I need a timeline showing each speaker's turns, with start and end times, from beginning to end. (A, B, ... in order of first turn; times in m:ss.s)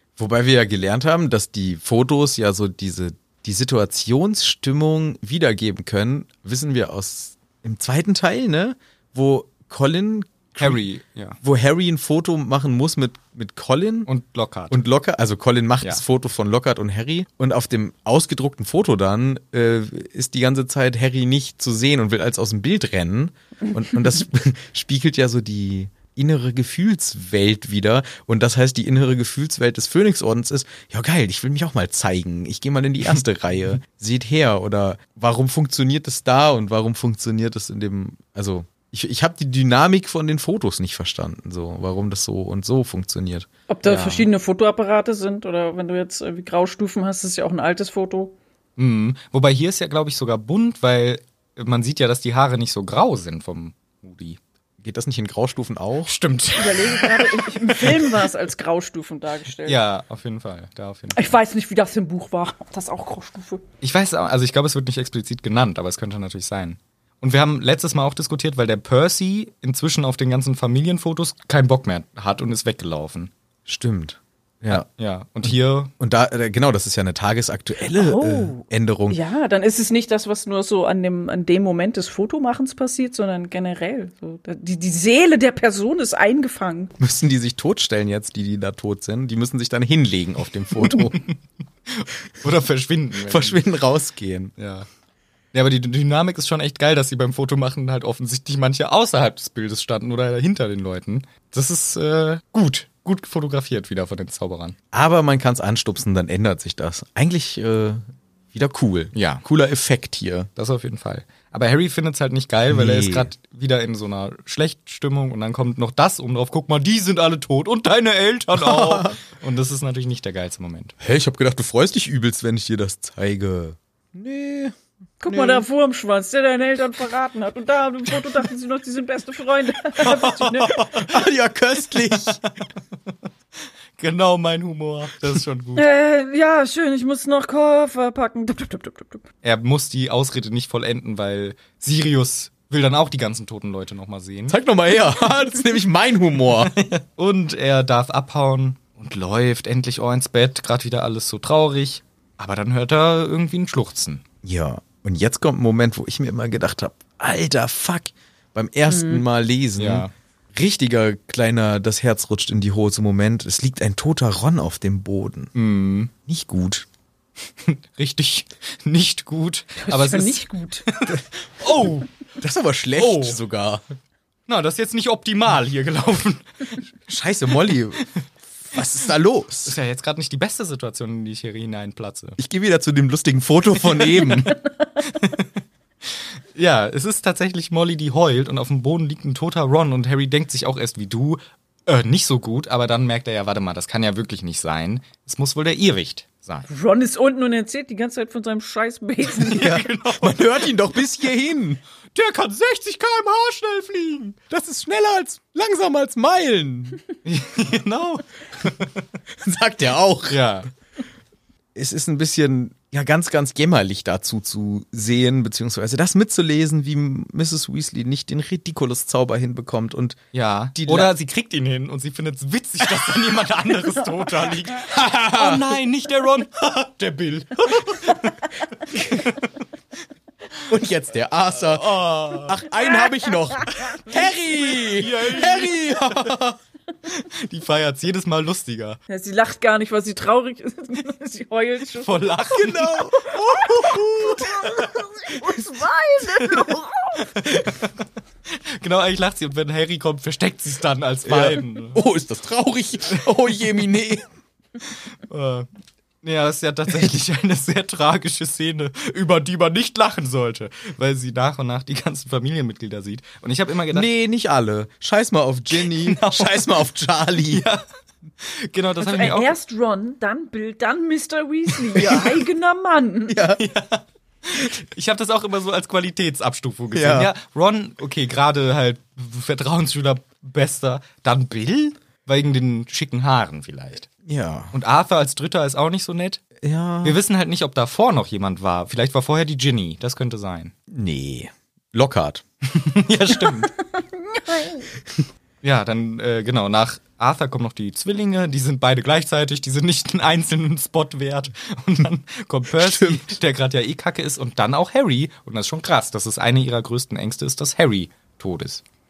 0:00.2-0:10.8 A
0:10.6-0:11.4 B
0:11.4-0:14.1 A
0:14.1-0:14.8 B
0:14.7-0:43.5 A
0:43.7-0:48.4 C
0:43.8-0:44.3 B
0:48.8-0:54.4 B
0:54.8-0:56.1 A
0:56.1-0:58.2 B
0:56.5-0:59.8 C
0:59.6-1:01.2 B
1:01.1-1:03.6 C
1:03.8-1:13.3 B
1:13.7-1:14.8 A
1:14.7-1:15.9 B
1:15.5-1:19.2 A
1:17.8-1:27.0 C
1:27.0-1:31.2 A
1:30.8-1:31.3 B
1:31.9-1:33.6 B
1:33.2-1:34.6 A
1:34.6-1:34.8 B
1:35.5-1:44.8 B
1:44.9-1:50.5 A
1:49.1-1:49.4 B
1:50.6-2:00.9 B
1:52.7-1:53.3 A
1:58.5-1:59.2 A
2:01.0-2:04.8 A
2:05.2-2:10.8 C
2:05.3-2:05.6 A
2:10.2-2:10.8 B
2:10.3-2:12.4 A
2:12.0-2:12.4 B
2:14.0-2:15.8 B
2:15.7-2:19.2 C
2:19.4-2:24.6 B
2:24.5-2:26.7 A
2:26.6-2:34.2 B
2:34.4-2:45.5 A
2:38.9-2:39.2 C
2:39.8-2:40.1 B
2:45.5-2:46.1 B
2:46.2-2:46.8 A
2:47.6-2:52.1 B
2:49.8-2:50.9 C
2:52.4-2:53.8 A
2:53.0-2:53.4 B
2:54.5-2:56.8 B
2:57.1-2:58.0 A
2:58.7-2:59.8 A
2:59.6-3:02.4 B
3:02.4-3:04.6 A
3:03.8-3:04.4 B
3:05.0-3:05.5 B
3:06.0-3:16.7 B
3:16.7-3:19.8 C
3:19.3-3:20.7 B
3:19.6-3:21.8 A
3:22.1-3:24.4 B
3:24.5-3:27.0 A
3:27.2-3:29.0 B
3:29.4-3:30.4 A
3:30.3-3:30.7 B
3:31.7-3:40.2 A
3:40.3-3:49.5 B
3:40.7-3:41.1 A
3:44.9-3:45.7 A
3:48.9-3:49.2 A
3:50.7-3:56.6 A
3:51.6-3:52.6 B
3:53.0-3:53.3 C
3:54.6-3:56.4 B
3:57.0-3:59.0 B
3:59.1-4:02.4 C
4:02.0-4:03.3 B
4:02.5-4:04.8 A
4:03.5-4:07.3 C
4:07.2-4:07.9 B
4:08.8-4:12.0 B
4:11.2-4:14.2 A
4:15.3-4:15.7 B
4:16.2-4:24.1 B
4:23.9-4:27.6 A
4:25.7-4:26.7 B
4:27.5-4:27.8 B
4:28.4-4:29.5 B
4:29.0-4:33.4 C
4:33.3-4:33.6 A
4:33.6-4:44.1 B
4:36.9-4:37.3 A
4:44.2-4:44.7 A
4:44.7-4:46.4 B
4:46.6-4:47.2 A
4:47.0-4:50.7 B
4:50.9-4:52.4 A
4:52.7-4:53.7 B
4:53.9-4:54.9 C
4:55.6-5:08.8 B
5:02.8-5:03.3 A